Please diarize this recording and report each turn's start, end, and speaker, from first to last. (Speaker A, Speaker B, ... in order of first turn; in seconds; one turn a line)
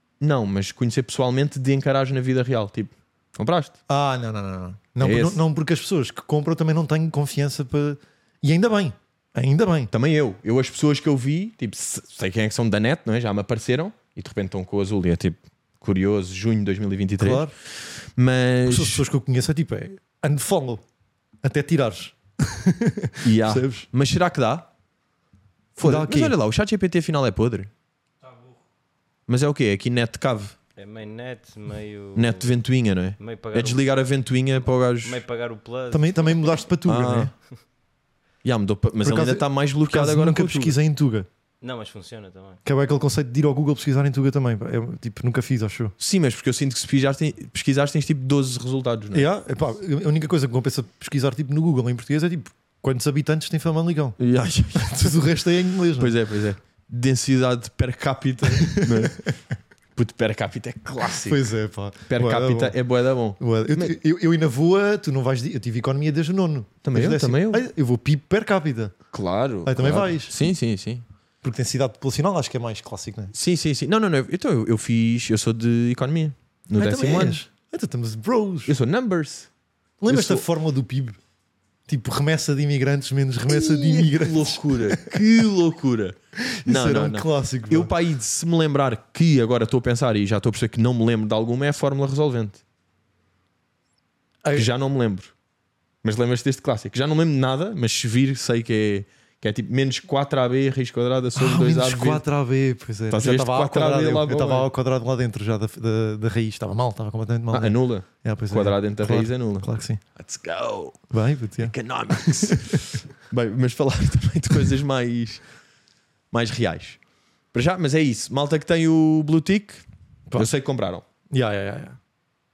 Speaker A: 0.2-3.7
Speaker B: 3.9-9.9
Speaker A: 5.0-5.4
Speaker A: 9.9-19.0
Speaker B: 17.2-17.5
Speaker B: 18.7-20.8
Speaker B: 21.4-23.9
Speaker A: 23.2-24.7
Speaker A: 25.8-27.7
Speaker B: 25.8-26.4
Speaker A: 29.3-30.5
Speaker C: 30.8-32.5
Speaker A: 32.1-35.2
Speaker C: 33.2-33.9
Speaker C: 35.0-36.3
Speaker B: 35.9-37.3
Speaker A: 36.9-37.3
Speaker A: 38.4-40.8
Speaker B: 39.0-41.3
Speaker C: 41.6-42.6
Speaker B: 42.6-45.9
Speaker A: 46.0-49.3
Speaker B: 49.1-54.2
Speaker A: 54.2-55.2
Speaker B: 54.7-56.1
Speaker A: 56.0-59.2
Speaker B: 58.5-59.3
Speaker A: 59.9-61.5
Speaker B: 61.2-62.8
Speaker A: 62.1-63.9
Speaker B: 63.4-68.9
Speaker A: 66.8-67.6
Speaker A: 69.1-71.0
Speaker B: 69.6-70.3
Speaker B: 71.4-73.3
Speaker A: 73.3-77.4
Speaker B: 76.8-78.7
Speaker A: 78.7-79.5
Speaker B: 80.0-81.2
Speaker A: 80.1-80.4
Speaker B: 81.9-85.2
Speaker A: 83.5-92.6
Speaker B: 86.4-87.9
Speaker A: 94.5-95.3
Speaker A: 96.0-102.2
Speaker B: 101.3-110.0
Speaker A: 103.1-104.7
Speaker A: 107.5-111.0
Speaker B: 111.1-112.8
Speaker A: 111.6-115.4
Speaker A: 116.3-117.0
Speaker A: 117.5-121.0
Speaker B: 121.3-122.0